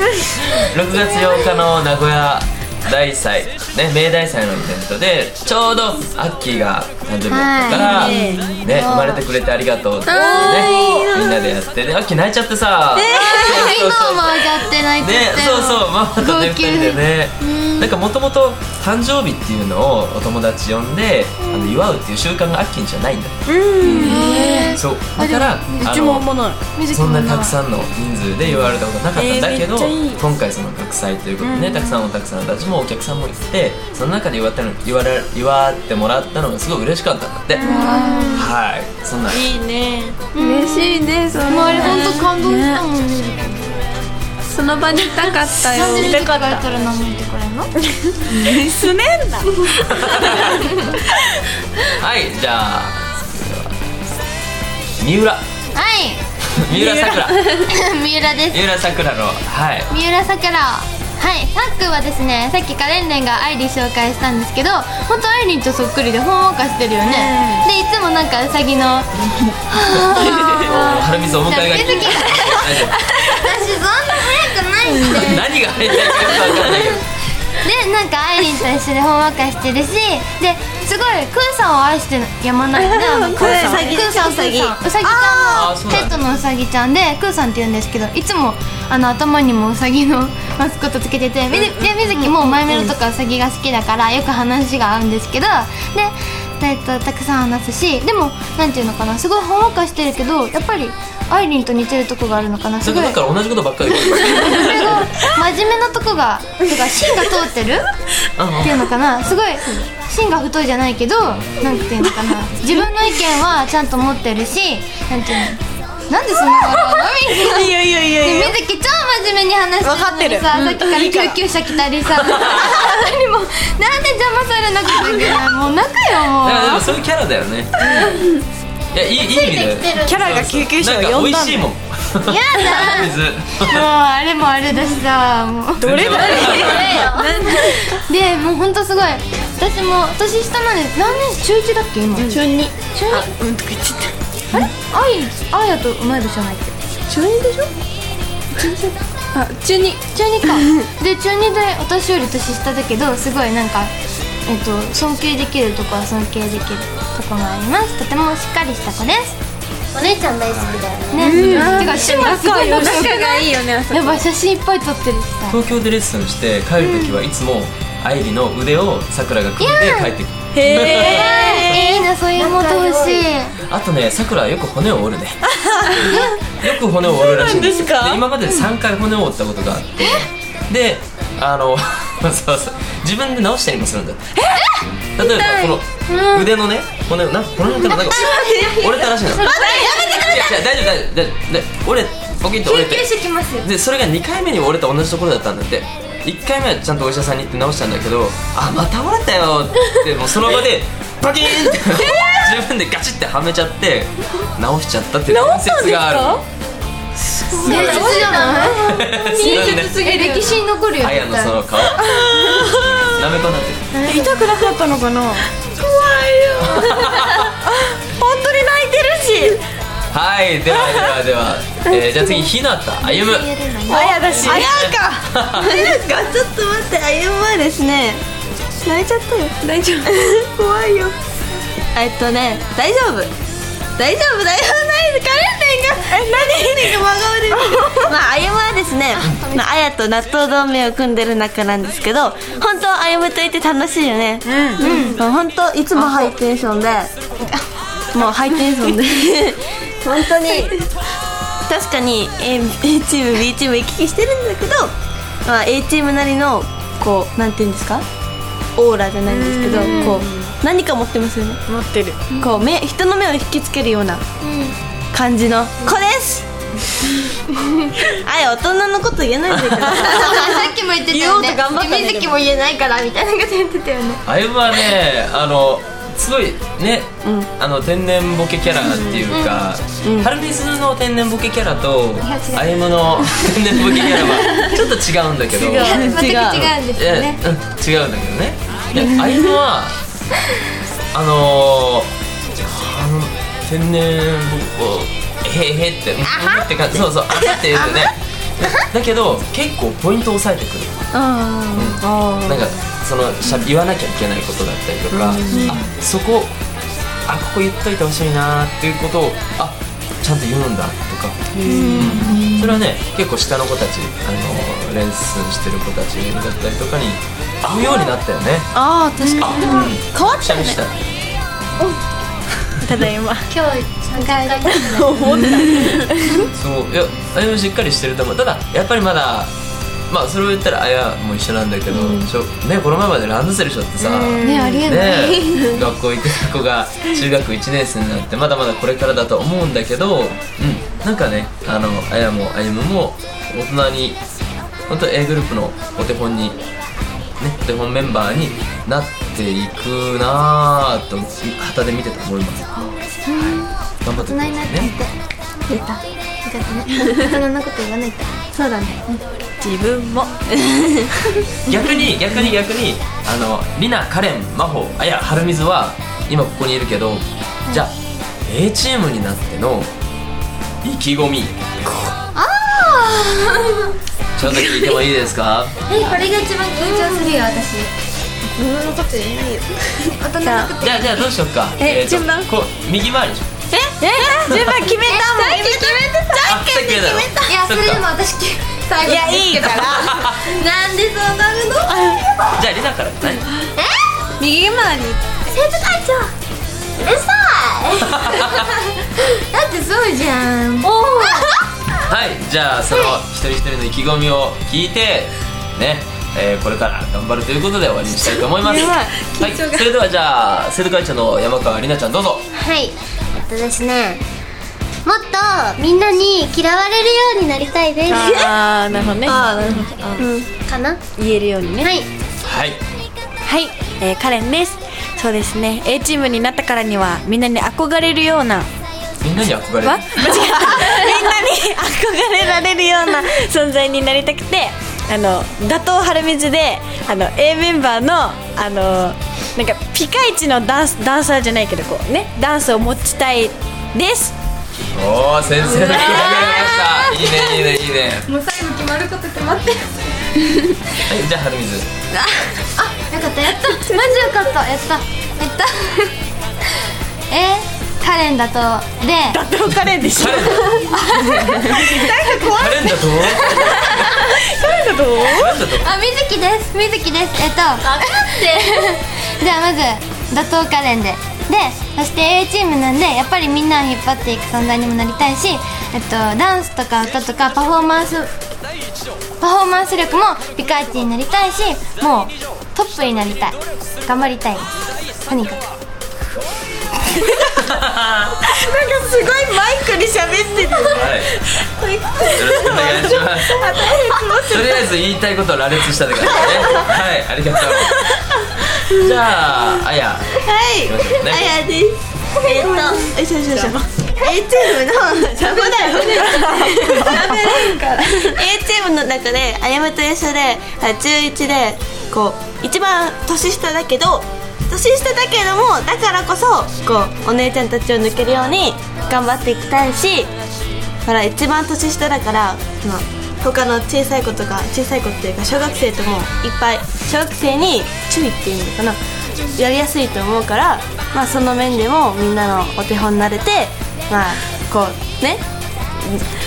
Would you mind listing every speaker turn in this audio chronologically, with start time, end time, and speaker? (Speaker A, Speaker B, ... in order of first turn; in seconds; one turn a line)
Speaker A: 0.4-24.2
Speaker B: 7.3-8.2
Speaker C: 7.8-8.5
Speaker D: 8.0-8.6
Speaker C: 10.1-11.1
Speaker D: 10.1-11.4
Speaker D: 12.9-13.5
Speaker E: 13.1-17.9
Speaker C: 23.5-26.7
Speaker E: 23.9-24.8
Speaker D: 24.0-24.3
Speaker A: 24.7-26.4
Speaker E: 26.8-27.5
Speaker A: 26.9-39.5
Speaker C: 29.1-30.2
Speaker C: 31.4-32.1
Speaker C: 37.5-38.5
Speaker E: 37.6-38.5
Speaker C: 39.3-40.2
Speaker E: 40.4-43.7
Speaker F: 40.4-42.3
Speaker C: 41.7-42.8
Speaker F: 44.5-46.2
Speaker C: 45.1-46.6
Speaker E: 45.6-47.7
Speaker C: 48.2-50.4
Speaker A: 49.8-50.7
Speaker E: 50.4-51.0
Speaker A: 52.0-53.9
Speaker A: 55.0-55.5
Speaker E: 55.8-56.2
Speaker A: 56.5-57.7
Speaker E: 56.8-58.6
Speaker A: 58.5-59.9
Speaker E: 59.9-69.1
Speaker C: 67.1-67.6
Speaker E: 69.7-77.0
Speaker A: 70.3-73.1
Speaker A: 75.0-77.0
Speaker E: 77.6-103.2
Speaker D: 82.9-85.7
Speaker C: 83.5-83.8
Speaker A: 85.5-86.3
Speaker D: 91.7-92.9
Speaker A: 102.8-105.3
Speaker E: 104.0-107.8
Speaker A: 108.4-108.9
Speaker E: 108.6-126.9
Speaker C: 116.8-118.6
Speaker C: 119.8-121.4
Speaker A: 122.1-123.0
Speaker A: 126.4-128.1
Speaker C: 127.8-128.2
Speaker A: 128.9-133.9
Speaker B: 129.2-130.4
Speaker C: 130.1-131.7
Speaker E: 132.3-136.2
Speaker C: 135.8-137.9
Speaker A: 135.8-137.1
Speaker F: 136.4-138.0
Speaker B: 136.5-137.4
Speaker E: 138.1-143.3
Speaker D: 142.2-142.7
Speaker C: 143.1-144.1
Speaker E: 144.5-146.8
Speaker F: 147.1-147.7
Speaker F: 148.6-150.8
Speaker E: 150.1-153.9
Speaker E: 154.5-159.4
Speaker B: 159.9-162.0
Speaker A: 160.5-160.9
Speaker E: 161.1-165.6
Speaker C: 161.2-163.4
Speaker F: 161.5-164.2
Speaker A: 165.5-171.7
Speaker E: 166.8-167.2
Speaker E: 169.6-170.1
Speaker C: 170.6-171.7
Speaker E: 170.8-173.6
Speaker B: 172.4-173.2
Speaker A: 173.6-184.5
Speaker E: 176.1-176.3
Speaker D: 177.3-177.9
Speaker C: 177.5-178.1
Speaker C: 184.4-184.7
Speaker A: 185.2-206.4
Speaker E: 186.1-186.4
Speaker E: 187.8-190.5
Speaker D: 188.3-188.8
Speaker D: 189.5-190.2
Speaker B: 189.6-190.1
Speaker C: 189.7-190.2
Speaker E: 192.6-193.7
Speaker C: 205.3-206.4
Speaker C: 207.3-208.8
Speaker E: 207.6-211.6
Speaker A: 207.6-210.2
Speaker A: 211.0-213.9
Speaker C: 212.3-213.0
Speaker E: 213.9-214.7
Speaker C: 214.1-215.5
Speaker D: 215.8-217.0
Speaker A: 216.6-217.6
Speaker C: 217.7-219.6
Speaker A: 220.1-225.9
Speaker E: 223.0-224.6
Speaker C: 223.9-224.9
Speaker D: 223.9-228.2
Speaker D: 228.8-229.6
Speaker F: 229.6-230.1
Speaker D: 230.1-231.2
Speaker D: 231.9-233.3
Speaker D: 234.0-247.1
Speaker C: 236.2-237.0
Speaker C: 237.8-238.1
Speaker A: 239.2-239.5
Speaker C: 244.5-244.9
Speaker E: 244.8-245.2
Speaker C: 246.0-246.3
Speaker D: 248.1-250.9
Speaker D: 251.7-254.9
Speaker D: 255.4-258.1
Speaker D: 258.8-261.6
Speaker C: 259.3-260.4
Speaker E: 259.7-260.2
Speaker C: 261.7-262.3
Speaker D: 262.4-264.2
Speaker E: 264.4-264.8
Speaker D: 265.1-266.4
Speaker E: 267.5-268.0
Speaker D: 268.1-272.8
Speaker A: 269.5-270.0
Speaker E: 270.0-274.2
Speaker A: 274.3-290.0
Speaker D: 280.0-280.3
Speaker E: 282.3-282.8
Speaker E: 285.7-287.4
Speaker D: 285.8-286.7
Speaker A: 291.1-301.1
Speaker D: 297.5-298.1
Speaker D: 301.1-302.0
Speaker A: 301.7-306.6
Speaker C: 302.0-302.8
Speaker C: 305.1-305.8
Speaker D: 305.5-305.8
Speaker A: 307.3-318.7
Speaker C: 311.6-312.4
Speaker E: 311.7-312.7
Speaker D: 311.8-312.1
Speaker D: 318.8-320.8
Speaker E: 319.2-319.9
Speaker A: 319.4-321.0
Speaker C: 322.8-323.5
Speaker B: 323.5-325.6
Speaker E: 324.1-325.0
Speaker C: 324.7-326.5
Speaker A: 326.5-329.5
Speaker A: 330.1-344.2
Speaker C: 334.1-334.8
Speaker E: 334.4-335.7
Speaker A: 344.9-346.6
Speaker A: 347.4-352.7
Speaker E: 352.8-355.1
Speaker A: 353.4-355.0
Speaker E: 355.7-358.4
Speaker D: 358.6-359.0
Speaker C: 359.6-360.3
Speaker A: 361.7-367.9
Speaker A: 368.5-369.9
Speaker A: 370.8-371.7
Speaker E: 372.4-373.9
Speaker A: 374.4-375.8
Speaker E: 375.9-377.9
Speaker B: 376.8-377.5
Speaker D: 378.6-379.6
Speaker E: 380.2-381.3
Speaker F: 380.4-380.7
Speaker A: 380.8-383.5
Speaker F: 381.8-382.5
Speaker D: 383.7-384.1
Speaker C: 384.0-386.3
Speaker A: 384.5-384.9
Speaker E: 385.1-386.0
Speaker D: 385.5-387.5
Speaker A: 386.4-388.1
Speaker E: 387.4-392.5
Speaker D: 389.0-390.2
Speaker C: 389.1-390.0
Speaker A: 389.8-390.6
Speaker A: 392.5-393.5
Speaker B: 393.8-394.1
Speaker F: 394.4-395.4
Speaker B: 395.5-396.3
Speaker B: 397.0-398.3
Speaker A: 398.0-398.7
Speaker E: 399.3-401.5
Speaker B: 400.8-401.6
Speaker A: 402.1-412.5
Speaker D: 408.8-409.1
Speaker F: 409.3-409.9
Speaker B: 412.5-414.2
Speaker B: 415.1-418.4
Speaker C: 418.1-420.3
Speaker A: 418.9-419.4
Speaker D: 419.2-419.9
Speaker F: 420.2-420.5
Speaker B: 420.7-421.0
Speaker C: 421.2-421.9
Speaker B: 421.8-422.1
Speaker A: 422.4-422.8
Speaker C: 423.4-428.7
Speaker A: 429.2-430.8
Speaker C: 429.8-444.4
Speaker A: 444.9-448.3
Speaker E: 445.9-447.6
Speaker E: 448.4-449.7
Speaker A: 451.0-451.9
Speaker E: 452.8-456.1
Speaker F: 453.9-454.4
Speaker E: 457.3-459.4
Speaker C: 459.3-462.6
Speaker A: 460.1-461.1
Speaker E: 461.1-462.7
Speaker D: 462.2-462.6
Speaker A: 462.3-464.3
Speaker E: 463.4-464.0
Speaker C: 464.3-465.5
Speaker A: 465.2-465.9
Speaker E: 465.6-478.3
Speaker B: 467.8-468.9
Speaker E: 479.4-484.8
Speaker E: 485.3-485.6
Speaker A: 487.5-488.6
Speaker C: 488.5-491.0
Speaker A: 490.9-491.3
Speaker D: 491.8-493.0
Speaker A: 492.3-493.9
Speaker C: 493.5-494.6
Speaker A: 494.4-498.2
Speaker A: 498.8-501.5
Speaker D: 500.4-507.2
Speaker F: 505.4-508.4
Speaker C: 506.3-507.3
Speaker D: 508.3-520.3
Speaker D: 521.0-529.0
Speaker D: 529.5-535.4
Speaker D: 536.0-536.2